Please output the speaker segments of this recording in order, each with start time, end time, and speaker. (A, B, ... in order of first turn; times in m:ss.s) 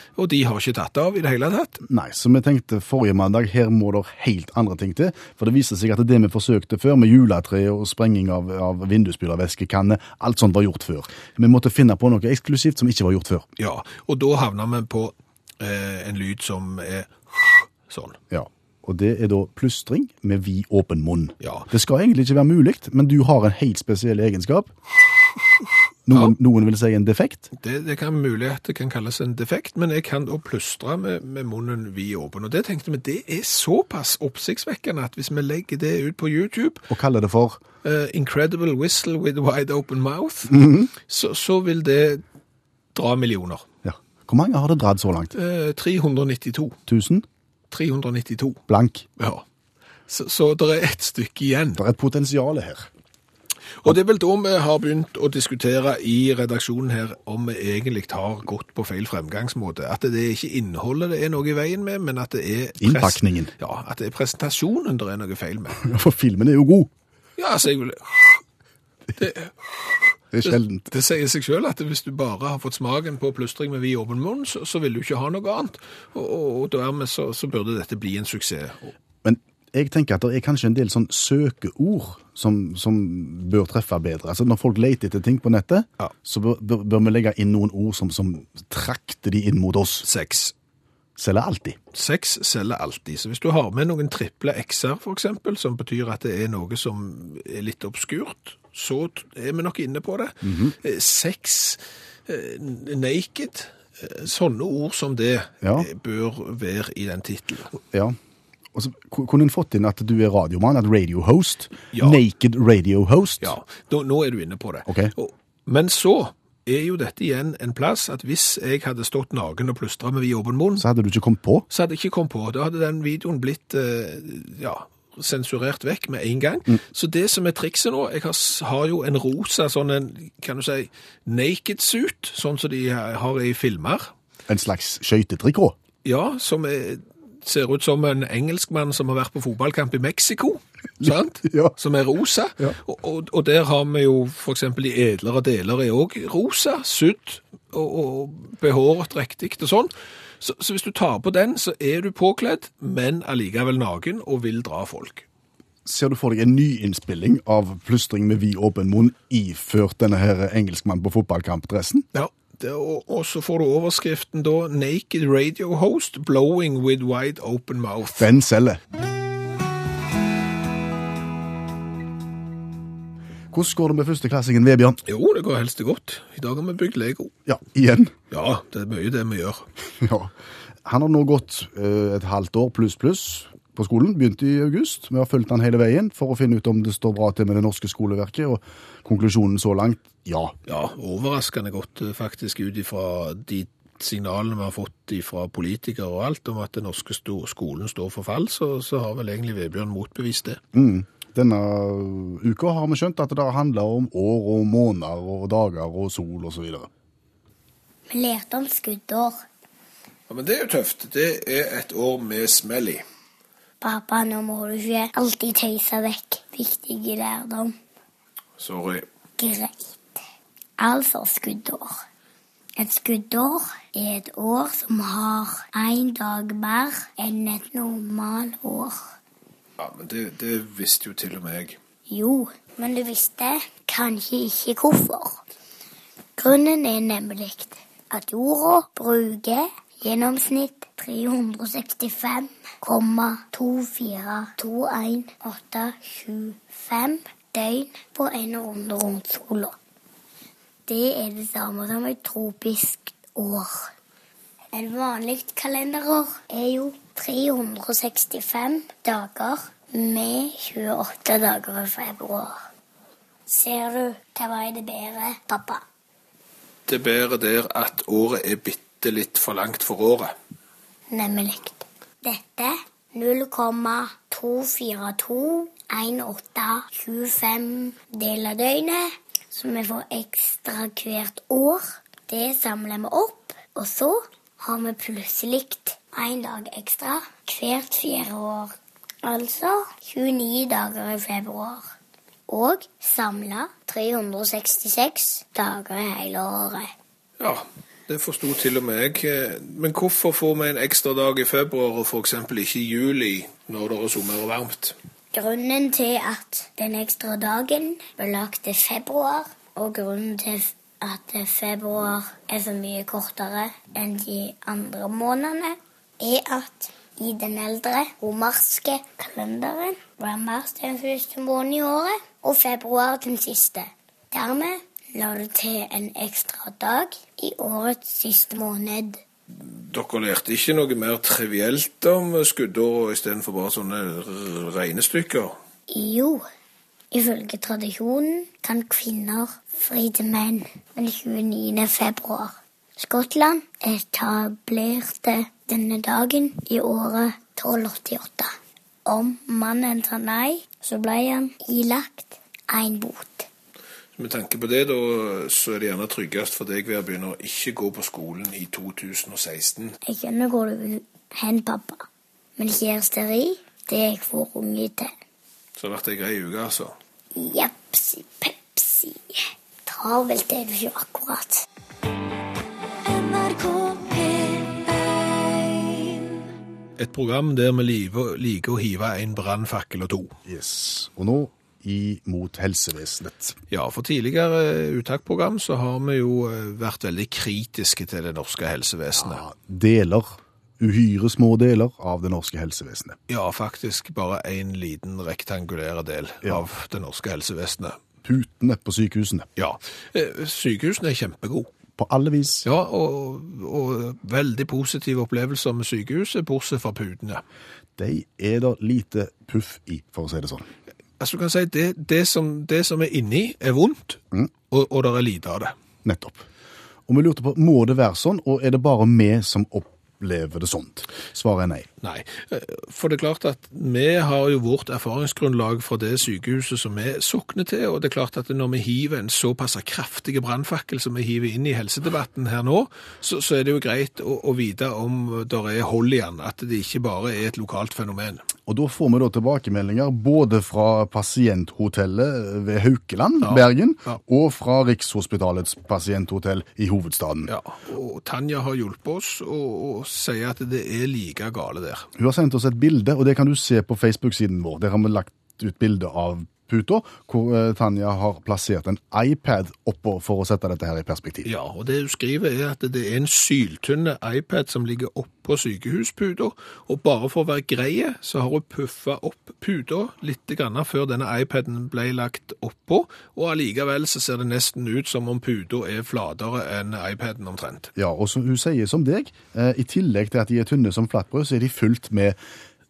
0:00.2-0:01.8 A
0:01.8-0:13.4 B
0:13.6-0:18.2 A
0:18.3-0:24.7 B
0:21.4-0:21.7 A
0:26.1-0:27.5 B
0:27.6-0:36.9 A
0:36.9-0:37.6 B
0:37.8-0:42.2 A
0:40.5-0:40.9 B
0:42.9-0:43.6 A
0:43.8-0:45.3 B
0:45.3-0:46.8 A
0:46.9-0:47.2 B
0:47.7-0:48.6 A
0:48.7-0:49.0 B
0:49.2-0:49.4 A
0:50.1-0:51.8 A
0:51.8-0:52.9 B
0:53.8-1:05.8 A
1:02.8-1:03.5 B
1:05.8-1:06.9 B
1:07.4-1:08.4 A
1:09.2-1:18.9 A
1:10.3-1:10.9 B
1:19.2-1:30.0 B
1:30.0-1:30.5 A
1:31.2-1:31.8 B
1:31.9-1:47.8 A
1:40.4-1:40.7 B
1:45.6-1:45.9 B
1:47.9-1:48.2 B
1:48.7-1:53.5 B
1:51.9-1:52.2 A
1:53.4-2:00.8 A
1:54.9-1:55.1 B
2:00.8-2:01.6 B
2:01.7-2:14.1 A
2:14.5-2:15.8 B
2:16.0-2:35.2 A
2:21.0-2:21.7 B
2:35.8-2:42.0 B
2:42.1-2:48.3 A
2:48.2-2:48.8 B
2:53.5-2:55.0 B
2:55.0-2:57.3 A
2:57.4-2:58.1 B
2:58.3-2:59.6 A
3:00.0-3:00.3 B
3:00.8-3:10.5 B
3:10.7-3:20.6 A
3:20.7-3:26.9 B
3:28.1-3:29.4 C
3:30.3-3:33.0 A
3:33.8-3:37.7 C
3:38.6-3:39.0 A
3:39.4-3:40.2 C
3:40.8-3:41.9 C
3:42.8-3:49.0 C
3:49.8-3:51.8 A
3:52.1-3:55.4 C
3:56.4-4:09.8 C
4:10.9-4:13.9 C
4:14.7-4:22.6 C
4:23.5-4:25.8 C
4:26.9-4:30.3 A
4:31.1-4:51.8 C
4:52.5-4:56.9 C
4:57.4-5:05.0 A
5:05.3-5:29.2 C
5:29.5-5:35.5 A
5:35.9-5:36.4 C
5:37.1-5:53.5 C
5:54.2-6:00.0 A
6:00.0-6:02.0 C
6:02.6-6:05.1 C
6:05.8-6:06.9 A
6:07.3-6:11.6 C
6:13.3-6:14.6 C
6:17.0-6:20.3 A
6:20.4-6:23.6 B
6:23.7-6:29.4 A
6:29.1-6:33.2 B
6:33.3-6:38.0 A
6:38.2-6:39.5 B
6:39.6-6:41.7 A
6:42.0-6:42.6 B
6:42.6-6:47.4 A
6:48.0-6:50.6 B
6:51.2-6:55.7 A
6:56.0-6:56.4 B
6:57.1-7:01.9 B
7:02.0-7:18.4 A
7:18.7-7:27.5 B
7:23.4-7:24.2 A
7:27.5-7:32.1 A
7:32.2-7:41.5 B
7:41.4-7:57.9 A
7:57.9-8:02.4 B